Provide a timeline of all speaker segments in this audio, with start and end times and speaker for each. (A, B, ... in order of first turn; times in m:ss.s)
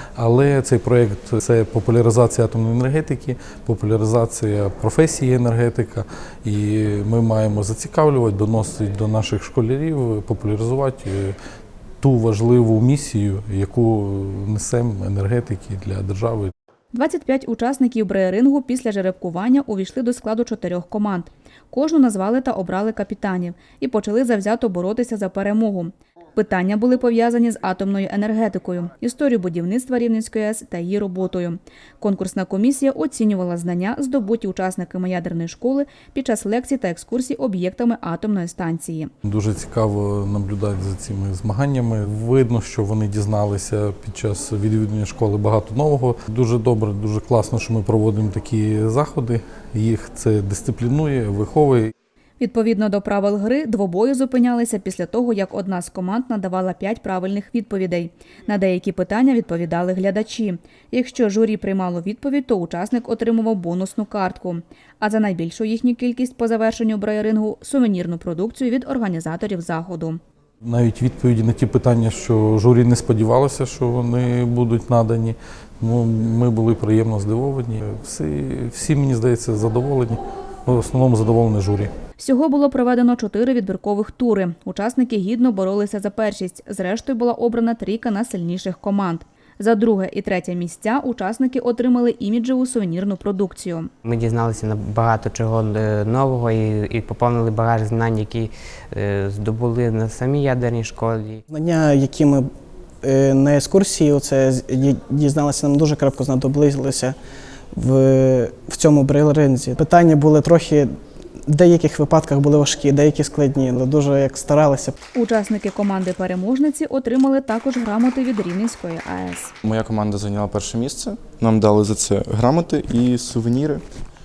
0:00.2-0:11.4 A
0:12.0-0:16.5 A
0:16.9-0:39.1 B
0:39.2-0:51.9 A
0:52.4-1:10.2 B
1:10.6-1:21.9 A
1:22.2-1:33.9 B
1:34.0-1:41.3 C
1:41.5-1:42.5 D
1:43.0-1:47.2 D
1:47.7-1:50.9 D
1:51.4-1:54.9 D
1:55.1-1:59.5 B
1:59.6-2:03.8 E